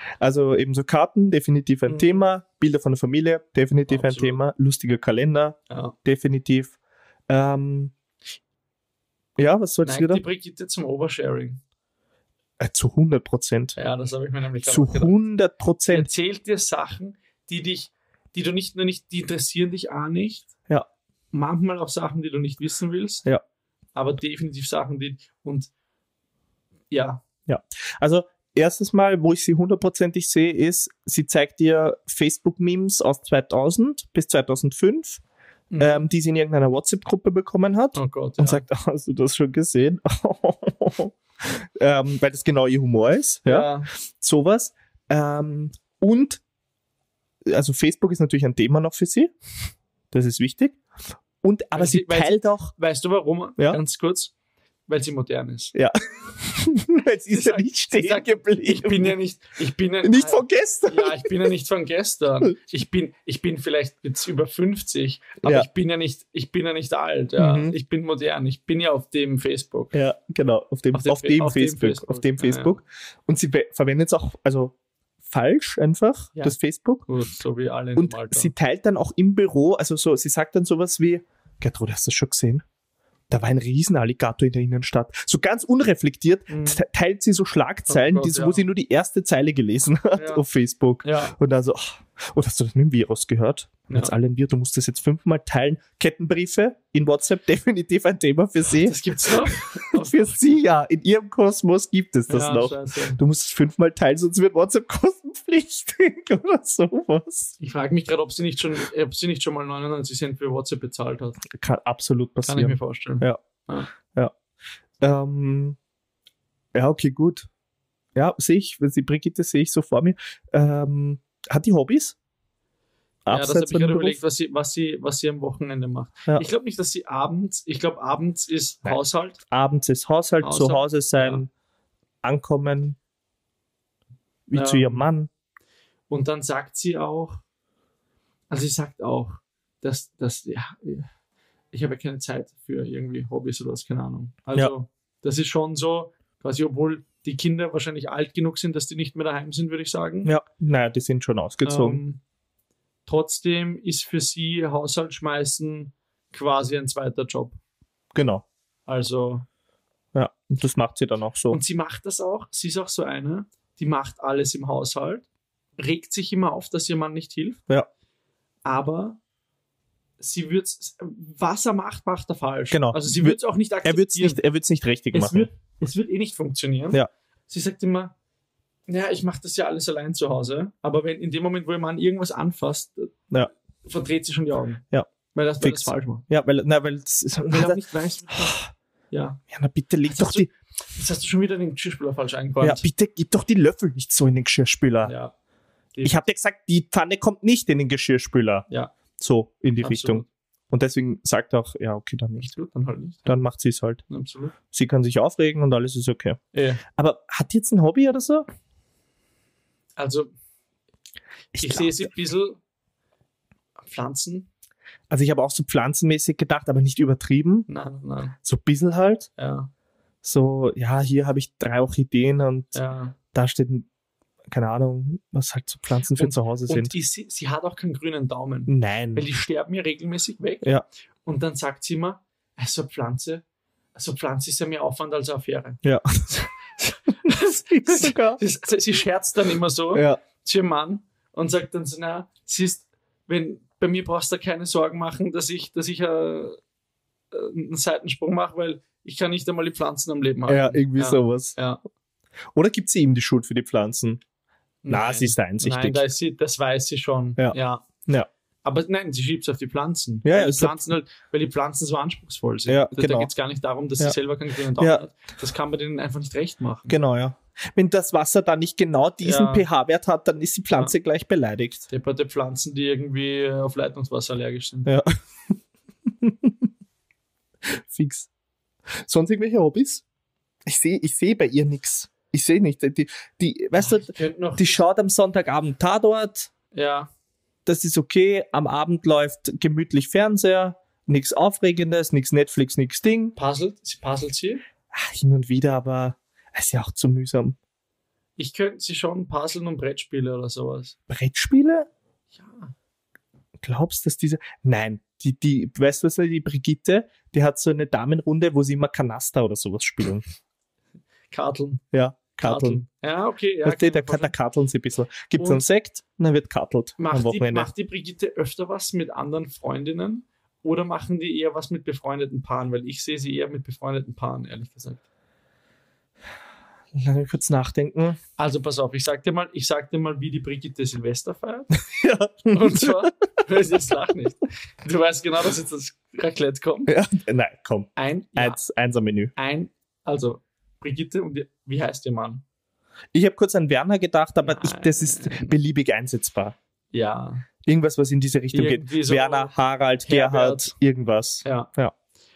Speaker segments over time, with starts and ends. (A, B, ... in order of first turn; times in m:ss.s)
0:00.2-0:06.8 A
0:01.9-0:02.2 B
0:03.9-0:04.4 B
0:05.7-0:06.0 B
0:07.3-0:07.9 A
0:09.4-0:10.2 A
0:09.8-0:11.6 B
0:12.6-0:13.8 A
0:13.8-0:15.2 B
0:14.6-0:16.1 A
0:15.9-0:20.5 B
0:21.3-0:23.3 B
0:23.9-0:25.7 B
0:26.9-0:27.2 B
0:27.5-0:35.2 A
0:35.7-0:36.0 B
0:35.8-0:46.4 A
0:37.9-0:38.6 B
0:43.4-0:43.9 B
0:47.4-0:49.3 A
0:50.1-0:50.8 A
0:51.4-0:52.7 A
0:51.7-0:54.3 B
0:54.9-0:55.7 B
0:55.7-0:59.1 A
0:57.3-1:09.9 B
1:00.0-1:01.5 A
1:07.4-1:07.7 A
1:09.9-1:14.7 A
1:10.9-1:12.8 B
1:15.2-1:17.0 A
1:16.4-1:18.5 B
1:18.0-1:22.6 A
1:23.3-1:47.6 A
1:26.5-1:26.8 B
1:27.9-1:28.6 B
1:30.2-1:30.4 B
1:31.0-1:31.3 B
1:38.8-1:40.4 B
1:42.3-1:43.2 B
1:47.6-1:51.4 B
1:51.5-1:53.4 A
1:52.4-1:53.9 B
1:53.9-1:54.3 A
1:55.0-1:55.8 A
1:56.7-1:57.5 A
1:58.1-2:02.2 A
2:03.2-2:04.2 A
2:03.3-2:09.4 B
2:08.8-2:11.5 A
2:10.4-2:11.4 B
2:12.2-2:13.0 A
2:14.5-2:15.3 A
2:14.5-2:15.0 B
2:16.1-2:17.4 B
2:18.5-2:21.1 B
2:21.7-2:30.3 B
2:30.2-2:32.0 A
2:31.6-2:32.2 B
2:33.0-2:37.6 B
2:38.1-2:38.4 A
2:38.9-2:39.4 B
2:40.1-2:41.6 A
2:41.5-2:45.2 B
2:45.8-2:47.6 B
2:48.6-2:49.2 B
2:50.2-2:54.4 B
2:52.7-2:55.5 A
2:55.1-2:58.1 B
2:58.9-3:03.2 B
3:03.8-3:04.8 B
3:05.3-3:06.2 B
3:05.6-3:08.7 A
3:07.5-3:09.4 B
3:09.5-3:10.5 A
3:10.1-3:12.9 B
3:12.6-3:15.1 A
3:15.0-3:15.3 B
3:15.9-3:16.2 B
3:16.0-3:18.6 A
3:18.7-3:18.9 B
3:19.2-3:22.5 A
3:19.8-3:20.3 B
3:22.4-3:23.3 B
3:23.2-3:24.0 A
3:24.1-3:24.5 B
3:24.7-3:28.4 A
3:26.5-3:26.8 B
3:30.0-3:30.3 B
3:31.5-3:32.0 A
3:31.6-3:32.6 B
3:33.8-3:34.5 B
3:35.1-3:37.7 A
3:37.7-3:38.4 B
3:38.4-3:39.3 A
3:39.4-3:39.7 B
3:40.2-3:42.7 A
3:42.7-3:43.2 B
3:43.3-3:43.9 A
3:44.5-3:46.9 A
3:46.1-3:50.7 B
3:48.7-3:49.2 A
3:51.2-3:53.4 B
3:53.9-4:06.6 B
3:55.8-3:56.3 A
3:57.3-3:58.4 A
3:59.9-4:00.2 A
4:07.3-4:11.8 B
4:10.5-4:11.6 A
4:12.5-4:14.2 A
4:14.8-4:17.9 B
4:14.9-4:16.0 A
4:17.4-4:18.3 A
4:18.6-4:26.9 B
4:20.2-4:20.8 A
4:22.7-4:23.3 A
4:24.8-4:25.0 A
4:26.9-4:31.9 A
4:29.2-4:29.6 B
4:31.9-4:34.9 B
4:34.8-4:35.5 A
4:36.2-4:36.6 A
4:37.6-4:38.3 A
4:38.9-4:40.0 A
4:40.6-4:46.5 A
4:43.8-4:44.8 B
4:46.7-4:47.1 B
4:47.6-4:53.3 A
4:53.4-4:54.6 B
4:54.9-4:57.6 A
4:58.4-5:00.9 B
5:01.1-5:01.9 A
5:02.4-5:02.7 B
5:03.6-5:10.2 A
5:11.3-5:11.8 B
5:11.9-5:12.8 A
5:12.4-5:14.3 B
5:13.6-5:17.7 A
5:15.4-5:15.6 B
5:17.0-5:25.0 B
5:26.9-5:28.2 A
5:28.4-5:31.7 B
5:31.8-5:33.1 A
5:32.5-5:36.9 B
5:36.9-5:39.3 A
5:38.0-5:38.6 B
5:39.4-5:42.4 B
5:43.1-5:46.5 A
5:44.4-5:45.5 B
5:46.9-5:47.4 B
5:47.6-5:51.9 A
5:48.5-5:49.5 B
5:50.0-5:50.7 B
5:51.4-5:51.7 B